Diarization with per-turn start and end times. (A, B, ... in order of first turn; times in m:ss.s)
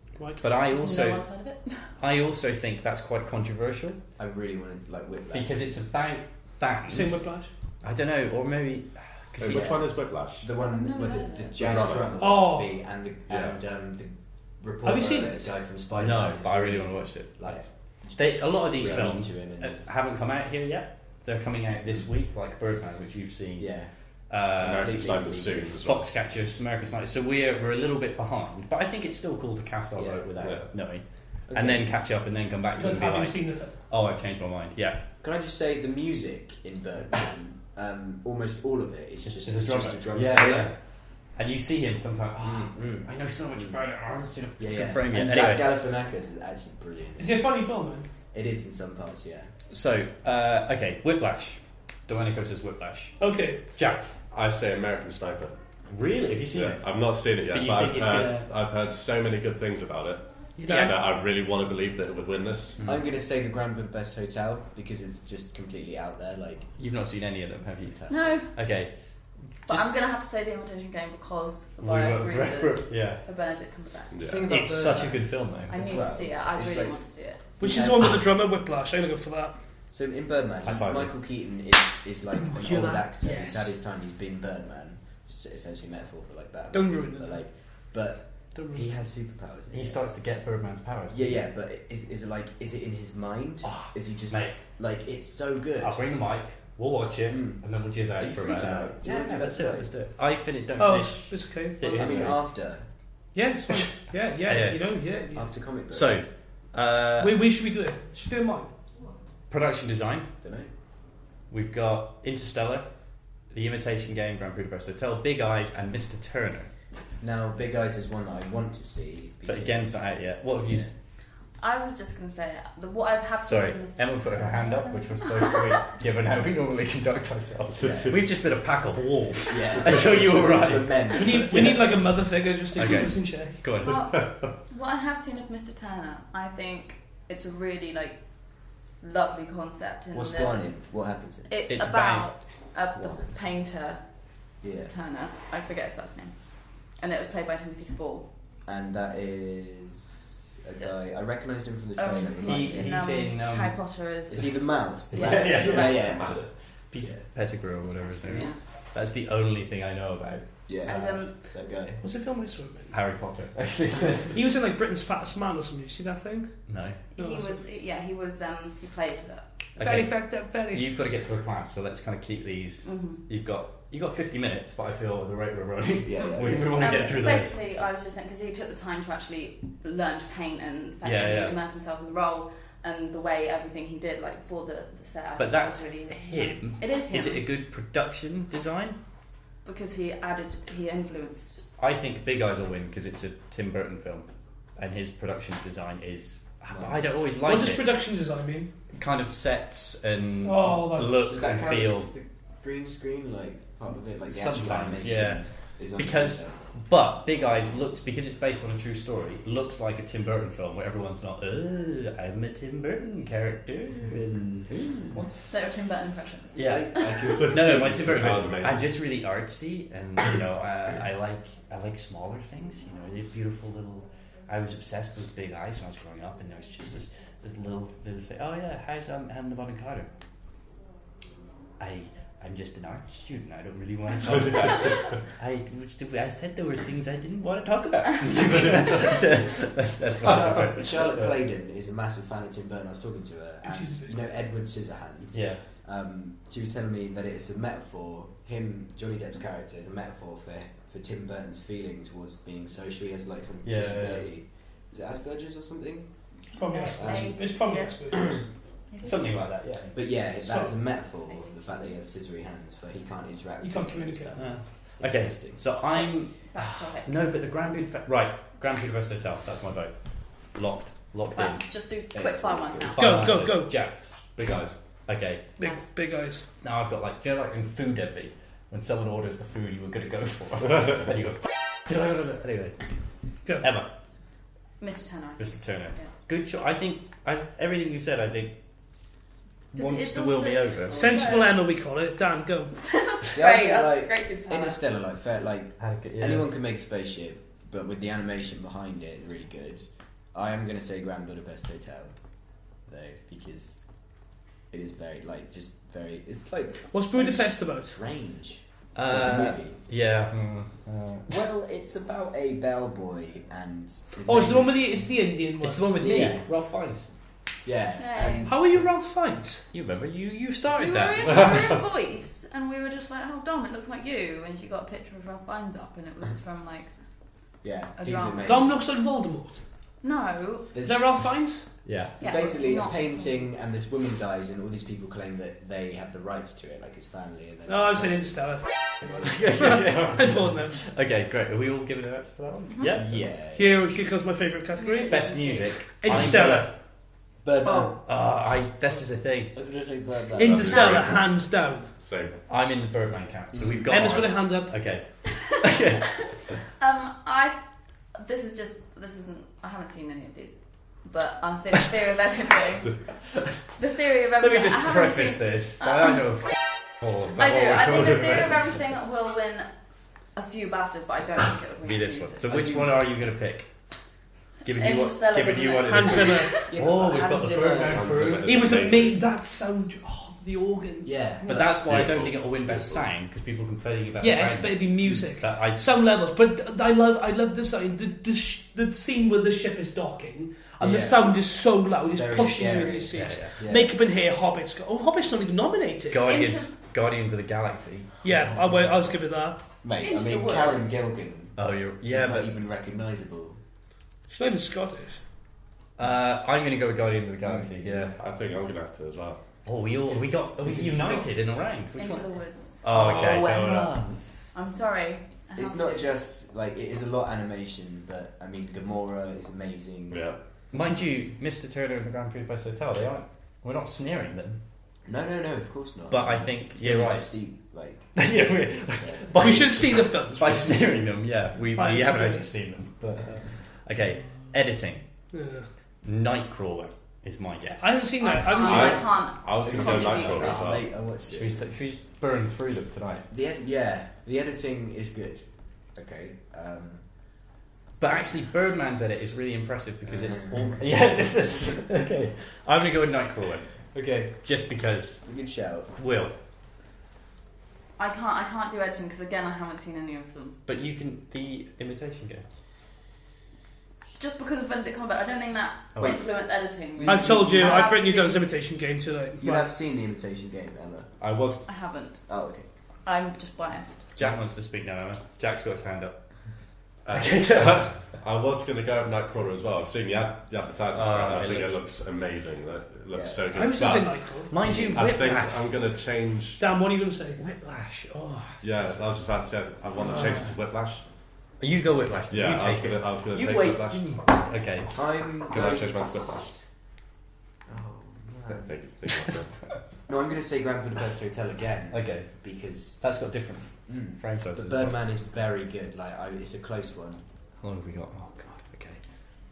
0:00.4-0:01.2 A
0:00.6-0:01.8 B
0:02.0-0:04.0 A
0:04.2-0:05.7 C
0:05.3-0:07.2 A
0:06.9-0:07.5 D
0:07.8-0:09.8 A
0:09.4-0:10.5 E
0:09.4-0:19.8 C
0:10.6-0:11.6 B
0:11.6-0:12.2 E
0:12.2-0:12.7 D
0:13.3-0:13.6 E
0:14.8-0:15.5 D
0:16.0-0:23.7 A
0:23.6-0:23.9 C
0:24.3-0:25.0 A
0:24.6-0:25.8 C
0:24.6-0:26.1 E
0:25.8-0:35.0 A
0:29.9-0:30.2 C
0:30.4-0:30.6 E
0:31.5-0:31.9 C
0:32.8-0:33.7 D
0:35.2-0:40.7 C
0:39.2-0:40.8 A
0:41.4-0:45.7 A
0:42.4-0:43.8 C
0:44.6-0:47.4 C
0:47.2-0:48.1 D
0:48.3-0:49.5 C
0:49.7-0:53.2 A
0:53.2-0:53.6 D
0:53.7-0:54.1 A
0:54.3-0:55.5 E
0:55.9-0:56.8 A
0:56.5-1:02.8 E
0:57.5-0:58.5 A
1:00.6-1:01.0 D
1:00.6-1:00.9 A
1:02.8-1:03.0 A
1:02.8-1:06.7 C
1:06.8-1:08.9 A
1:07.9-1:08.4 C
1:08.1-1:08.5 B
1:09.7-1:14.2 B
1:11.8-1:13.2 A
1:14.1-1:14.5 E
1:14.2-1:17.0 C
1:14.4-1:15.9 A
1:15.7-1:17.5 B
1:17.6-1:18.2 C
1:17.6-1:19.6 D
1:19.9-1:30.0 C
1:20.6-1:21.1 A
1:22.4-1:23.7 D
1:26.7-1:27.4 D
1:28.5-1:28.9 D
1:29.7-1:31.4 A
1:31.1-1:36.0 C
1:33.6-1:34.6 A
1:35.8-1:42.4 A
1:37.3-1:37.6 C
1:38.2-1:39.9 C
1:40.8-1:42.3 D
1:42.0-1:42.8 C
1:43.3-1:45.5 D
1:44.4-1:44.8 A
1:45.3-1:46.2 C
1:45.9-1:47.4 A
1:47.2-1:48.7 D
1:49.5-1:50.3 A
1:50.4-1:50.7 C
1:51.5-1:52.9 A
1:53.5-1:56.7 A
1:57.2-2:00.0 C
1:59.4-2:00.9 A
2:01.6-2:05.8 B
2:03.4-2:12.1 A
2:07.8-2:08.2 E
2:07.8-2:08.2 C
2:09.5-2:11.8 C
2:11.1-2:13.6 D
2:12.7-2:14.0 A
2:13.8-2:20.8 B
2:13.8-2:14.5 E
2:20.1-2:21.5 C
2:21.5-2:24.0 B
2:21.7-2:22.3 A
2:23.0-2:23.3 C
2:24.6-2:24.9 C
2:24.8-2:28.3 B
2:28.6-2:32.9 C
2:32.0-2:35.9 B
2:32.4-2:33.7 A
2:34.3-2:36.4 C
2:35.1-2:41.0 A
2:35.7-2:36.4 E
2:38.2-2:38.6 B
2:40.7-2:42.0 C
2:40.8-2:41.4 B
2:42.0-2:42.9 D
2:42.9-2:44.4 A
2:44.3-2:46.6 D
2:46.7-2:47.0 A
2:47.1-2:49.5 B
2:47.2-2:47.6 D
2:49.8-2:50.9 D
2:49.8-2:57.6 A
2:52.8-2:53.2 B
2:56.0-2:57.0 C
2:56.7-3:07.5 B
3:01.0-3:01.6 A
3:05.4-3:09.0 A
3:09.6-3:11.6 B
3:11.8-3:17.8 A
3:16.7-3:17.1 C
3:17.4-3:18.7 D
3:18.9-3:22.1 A
3:20.4-3:21.2 D
3:21.2-3:26.6 C
3:24.3-3:25.4 A
3:25.9-3:35.5 A
3:35.5-3:37.3 B
3:36.5-3:37.0 A
3:36.6-3:38.4 C
3:37.3-3:38.9 E
3:37.5-3:50.1 A
3:51.8-4:01.4 A
4:00.2-4:16.1 C
4:03.6-4:04.3 D
4:05.3-4:05.6 A
4:13.6-4:14.3 A
4:16.6-4:18.4 D
4:16.6-4:18.2 B
4:17.0-4:17.5 C
4:18.9-4:19.3 B
4:19.0-4:20.0 A
4:19.9-4:25.7 C
4:20.4-4:20.7 D
4:23.6-4:24.5 D
4:24.4-4:29.9 A
4:25.9-4:27.1 B
4:30.5-4:31.6 A
4:31.3-4:33.3 B
4:32.1-4:32.9 C
4:32.9-4:34.0 A
4:33.0-4:33.7 D
4:34.3-4:34.8 E
4:35.1-4:35.5 A
4:35.6-4:36.4 D
4:36.6-4:42.8 A
4:43.6-4:43.9 A
4:44.8-4:46.1 B
4:45.4-4:48.6 A
4:49.7-4:51.0 A
4:49.7-4:51.6 B
4:50.9-4:52.7 D
4:52.7-4:54.8 B
4:53.3-5:02.1 C
4:55.8-4:56.5 A
5:02.9-5:03.8 C
5:04.7-5:09.8 C
5:06.9-5:08.0 D
5:08.9-5:11.3 A
5:11.3-5:15.1 C
5:14.2-5:16.3 D
5:15.6-5:17.1 A
5:16.0-5:16.5 C
5:17.6-5:18.8 C
5:18.0-5:18.6 B
5:18.4-5:19.6 D
5:19.7-5:21.5 A
5:20.7-5:26.9 B
5:27.6-5:28.7 C
5:28.0-5:28.7 B
5:28.4-5:29.6 D
5:30.0-5:30.8 B
5:30.7-5:31.2 C
5:30.8-5:31.7 D
5:31.8-5:32.2 A
5:32.2-5:33.5 B
5:32.2-5:39.3 C
5:37.7-5:40.8 D
5:39.2-5:43.2 A
5:42.9-5:43.8 C
5:43.5-5:45.2 D
5:44.8-5:45.8 B
5:45.1-5:46.7 A
5:45.9-5:46.7 D
5:47.4-5:48.0 C
5:47.6-5:48.0 B
5:48.0-5:49.5 A
5:49.5-5:51.1 C
5:50.4-5:51.9 D
5:50.4-5:51.3 E
5:52.0-5:52.4 E
5:52.5-5:56.3 A
5:53.5-5:53.9 C
5:53.9-5:54.7 D
5:56.8-5:57.6 B
5:58.1-6:03.0 B
6:03.8-6:06.4 B
6:04.4-6:08.7 A
6:07.3-6:09.7 B
6:07.9-6:08.4 E
6:10.3-6:12.7 B
6:11.8-6:13.7 A
6:12.5-6:13.0 C
6:14.6-6:18.6 A
6:14.6-6:16.8 B
6:15.9-6:16.5 D
6:16.6-6:18.9 C
6:17.9-6:19.2 E
6:18.4-6:21.6 D
6:21.0-6:21.7 C
6:21.4-6:25.8 A
6:21.8-6:23.1 E
6:24.2-6:36.3 D
6:30.8-6:31.4 C
6:32.1-6:33.9 C
6:33.1-6:33.5 A
6:36.1-6:38.1 A
6:36.2-6:36.7 B
6:38.2-6:39.6 D
6:39.8-6:43.6 C
6:40.0-6:41.0 B
6:41.6-6:42.5 A
6:44.3-6:45.2 D
6:46.0-6:48.1 A
6:47.4-6:47.7 C
6:48.1-6:49.4 E
6:49.6-6:54.1 A
6:50.1-6:51.3 C
6:52.0-6:52.9 B
6:52.9-6:54.2 C
6:53.0-6:53.3 E
6:54.5-6:56.1 B
6:55.6-7:00.3 C
7:00.1-7:00.4 E
7:00.7-7:04.6 A
7:05.0-7:09.9 C
7:06.1-7:07.4 A
7:08.1-7:15.0 A
7:09.4-7:10.9 D
7:11.8-7:12.5 D
7:15.3-7:15.7 D
7:16.0-7:18.0 A
7:17.8-7:19.1 D
7:18.2-7:20.8 B
7:18.5-7:20.8 E
7:19.6-7:21.6 C
7:21.3-7:23.3 A
7:23.3-7:27.0 C
7:28.0-7:33.7 A
7:30.0-7:30.8 C
7:33.9-7:34.3 C
7:34.4-7:35.2 A
7:35.2-7:35.9 C
7:35.9-7:36.3 A
7:38.0-7:40.6 B
7:40.6-7:42.4 A
7:44.2-7:48.4 B
7:45.9-7:46.2 A
7:47.0-7:47.3 A
7:47.0-7:49.6 D
7:47.1-7:47.6 C
7:49.4-7:51.1 C
7:51.2-7:51.6 E
7:51.6-7:52.2 B
7:52.3-7:52.6 C
7:53.0-7:54.0 B
7:54.2-7:56.2 A
7:57.0-8:04.2 E
7:57.1-7:57.9 A
8:00.9-8:01.8 A
8:03.1-8:03.4 C
8:03.5-8:04.5 D
8:04.5-8:05.6 A
8:04.6-8:05.2 C
8:04.9-8:06.6 E
8:06.6-8:07.4 D
8:07.4-8:09.0 A
8:08.6-8:11.0 E
8:10.1-8:10.5 A
8:11.6-8:15.0 A
8:12.3-8:14.1 E
8:14.9-8:16.3 C
8:15.5-8:16.5 E
8:17.7-8:18.7 C
8:18.5-8:19.5 E
8:20.1-8:23.0 C
8:21.9-8:22.3 A
8:23.0-8:25.0 A
8:23.9-8:27.2 C
8:27.6-8:29.0 A